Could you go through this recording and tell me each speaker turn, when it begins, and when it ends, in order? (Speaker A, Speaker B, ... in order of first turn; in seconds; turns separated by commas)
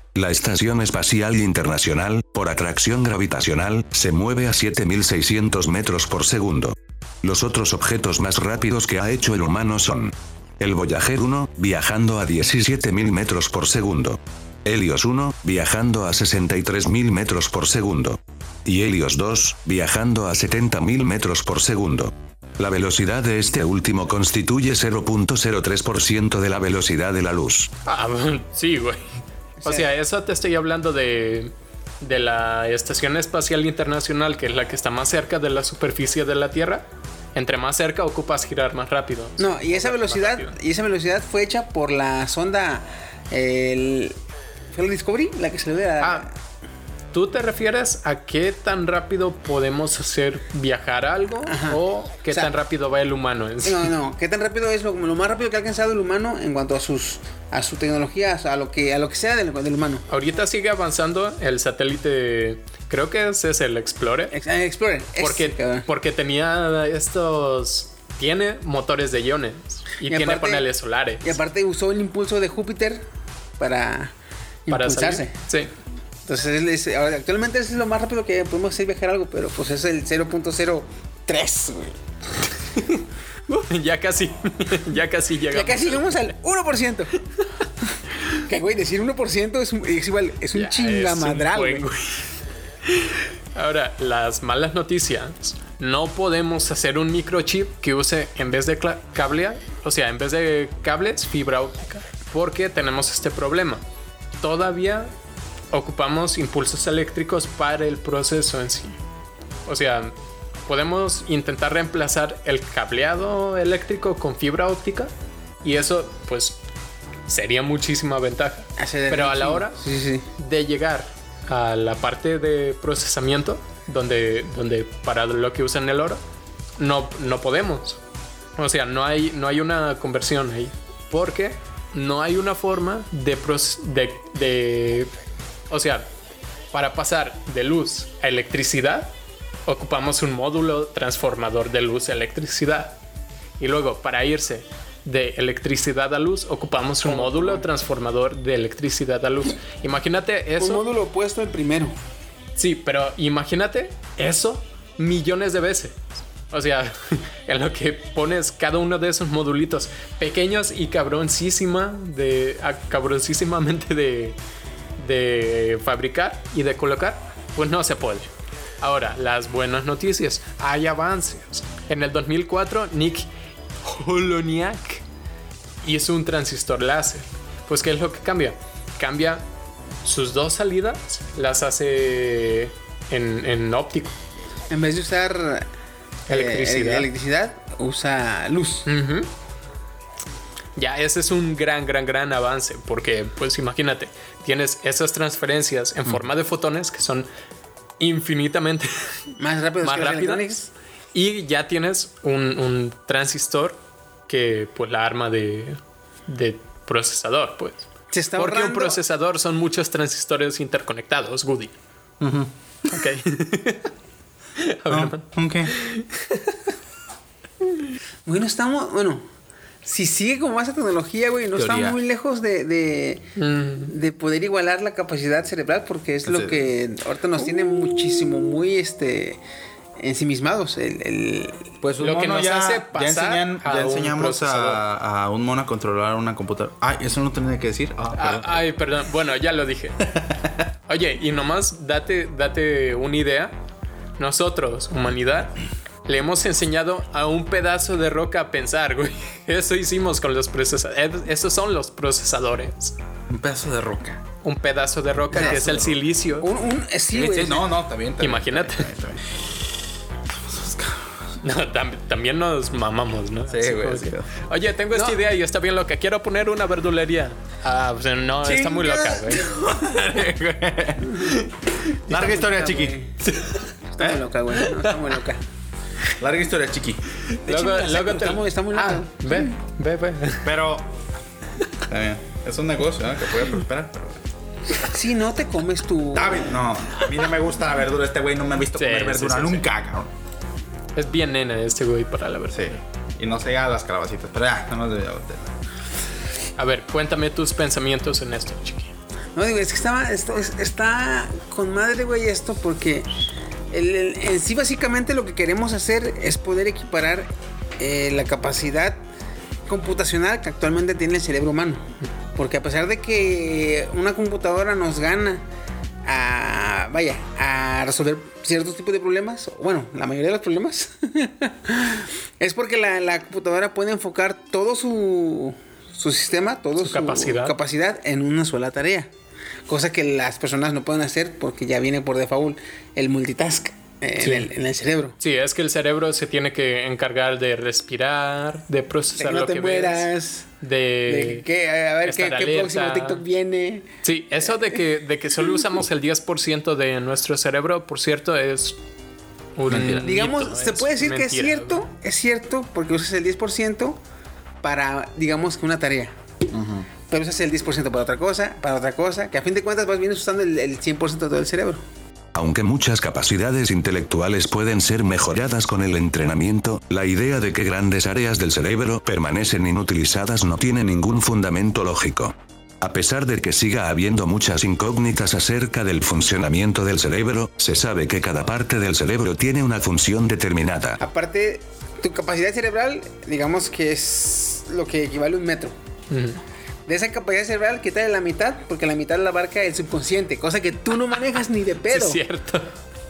Speaker A: 0.1-27.7, Speaker B: 27.8-29.1, Speaker C: 29.6-29.9, Speaker B: 29.6-40.5, Speaker C: 39.4-44.2, Speaker C: 44.7-46.3, Speaker B: 46.0-46.3, Speaker B: 47.1-53.9, Speaker C: 51.4-52.5, Speaker C: 53.6-60.0, Speaker B: 60.1-64.3, Speaker C: 64.3-65.9, Speaker B: 65.2-71.4, Speaker C: 70.0-70.7, Speaker C: 71.2-73.0, Speaker C: 73.6-74.1, Speaker C: 74.7-75.3, Speaker B: 74.7-75.7, Speaker C: 76.2-82.0, Speaker B: 82.7-86.2, Speaker C: 85.5-87.1, Speaker C: 88.5-91.8, Speaker B: 90.5-92.3, Speaker B: 92.9-103.8, Speaker B: 104.4-105.1, Speaker B: 105.7-109.0, Speaker B: 109.7-110.1, Speaker B: 110.7-115.1, Speaker B: 115.6-116.6, Speaker B: 117.3-119.8, Speaker C: 118.8-120.3, Speaker B: 120.4-126.2, Speaker B: 126.8-128.0, Speaker B: 128.6-135.1, Speaker B: 135.7-136.1, Speaker B: 136.7-139.1, Speaker B: 139.7-143.0, Speaker B: 143.6-150.8, Speaker C: 147.0-147.6, Speaker C: 150.6-151.9, Speaker B: 152.6-164.4, Speaker B: 165.0-173.3, Speaker B: 173.8-175.0, Speaker B: 175.8-179.4, Speaker B: 180.0-184.1, Speaker C: 184.7-185.7, Speaker B: 186.3-187.1, Speaker C: 186.3-188.9, Speaker B: 188.8-189.3, Speaker B: 190.8-197.3, Speaker B: 198.0-199.1, Speaker C: 199.4-200.7, Speaker B: 199.8-200.5, Speaker B: 201.1-207.8, Speaker C: 208.1-209.0, Speaker B: 208.3-211.7, Speaker D: 212.2-212.5, Speaker B: 212.9-213.9, Speaker B: 214.6-216.6, Speaker D: 214.9-215.7, Speaker C: 218.2-219.2, Speaker C: 219.8-223.2, Speaker D: 221.5-222.0, Speaker B: 223.3-223.9, Speaker C: 223.8-229.4, Speaker D: 226.3-226.6, Speaker C: 230.0-231.7, Speaker D: 231.8-238.6, Speaker B: 232.0-234.8, Speaker B: 238.1-240.1, Speaker B: 240.9-243.5, Speaker B: 244.2-252.9, Speaker D: 253.3-254.2, Speaker B: 254.4-256.5, Speaker D: 255.3-256.0, Speaker C: 255.3-255.7, Speaker C: 256.4-257.7, Speaker D: 257.1-259.3, Speaker B: 258.2-258.9, Speaker D: 260.4-261.1, Speaker B: 261.4-269.5, Speaker D: 263.5-264.3, Speaker C: 264.9-265.2, Speaker D: 268.4-271.3, Speaker D: 272.1-272.9, Speaker C: 272.1-273.2, Speaker B: 273.2-273.6, Speaker C: 273.9-275.4, Speaker B: 274.5-274.9, Speaker D: 276.2-277.0, Speaker B: 277.3-280.5, Speaker C: 277.4-279.5, Speaker D: 280.4-280.9, Speaker D: 281.9-284.2, Speaker C: 284.8-286.6, Speaker D: 286.1-290.1, Speaker B: 288.7-289.7, Speaker B: 290.9-292.7, Speaker D: 292.5-295.5, Speaker B: 296.6-298.9, Speaker C: 299.3-303.1, Speaker C: 303.7-309.0, Speaker C: 309.6-315.4, Speaker C: 316.0-329.1, Speaker B: 326.8-327.6, Speaker C: 329.7-335.1, Speaker B: 334.2-334.5, Speaker B: 335.2-340.1, Speaker C: 339.1-340.5, Speaker B: 340.6-341.4, Speaker C: 341.1-343.9, Speaker B: 342.0-343.2, Speaker B: 344.0-348.8, Speaker B: 349.6-351.9, Speaker D: 349.7-350.1, Speaker C: 350.0-354.0, Speaker C: 354.6-356.1, Speaker D: 356.5-356.9, Speaker C: 357.1-361.8, Speaker A: 362.3-381.0, Speaker C: 381.0-385.7, Speaker B: 386.1-386.4, Speaker C: 386.9-392.2, Speaker B: 391.9-392.7